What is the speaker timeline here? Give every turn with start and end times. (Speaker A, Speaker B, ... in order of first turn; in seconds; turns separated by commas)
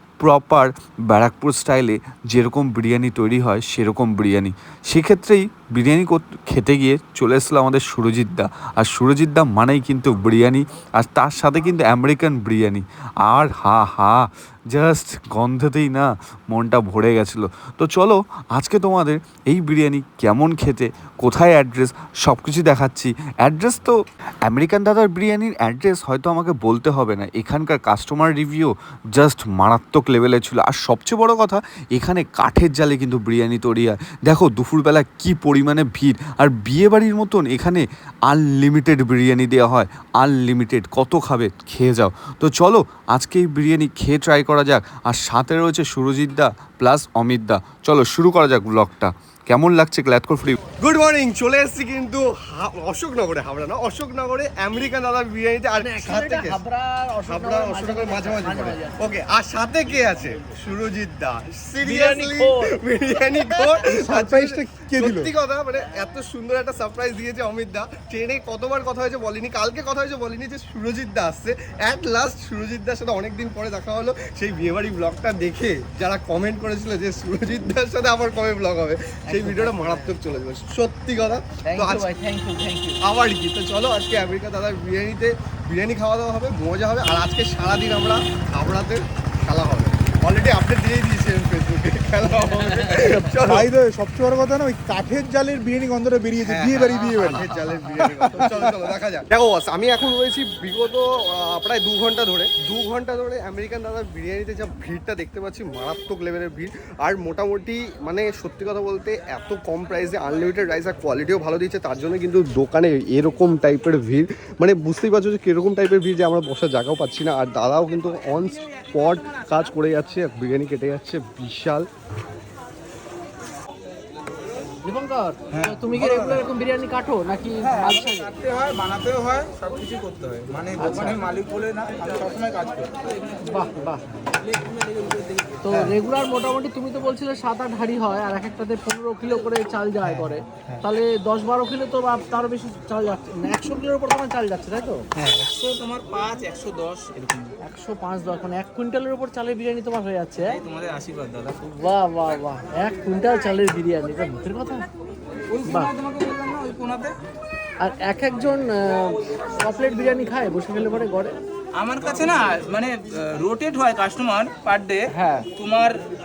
Speaker A: 0.2-50.6, Speaker B: 50.8-56.6, Speaker C: 55.8-59.1, Speaker B: 57.2-82.1, Speaker C: 61.8-62.8, Speaker C: 63.5-63.8, Speaker D: 63.8-65.3, Speaker C: 79.3-80.1, Speaker C: 81.6-83.0, Speaker B: 83.0-93.7, Speaker D: 93.4-98.8, Speaker B: 96.4-121.9, Speaker C: 97.3-98.1, Speaker C: 124.8-128.3, Speaker E: 125.5-126.4, Speaker E: 127.6-133.0, Speaker C: 130.8-131.2, Speaker C: 133.4-134.0, Speaker C: 135.6-145.1, Speaker E: 140.0-140.8, Speaker E: 145.2-147.5, Speaker C: 147.6-150.6, Speaker E: 150.5-151.6, Speaker C: 151.6-154.8, Speaker E: 155.5-157.2, Speaker C: 155.7-155.9, Speaker C: 157.8-161.4, Speaker E: 161.8-165.0, Speaker C: 165.1-165.5, Speaker E: 165.5-166.0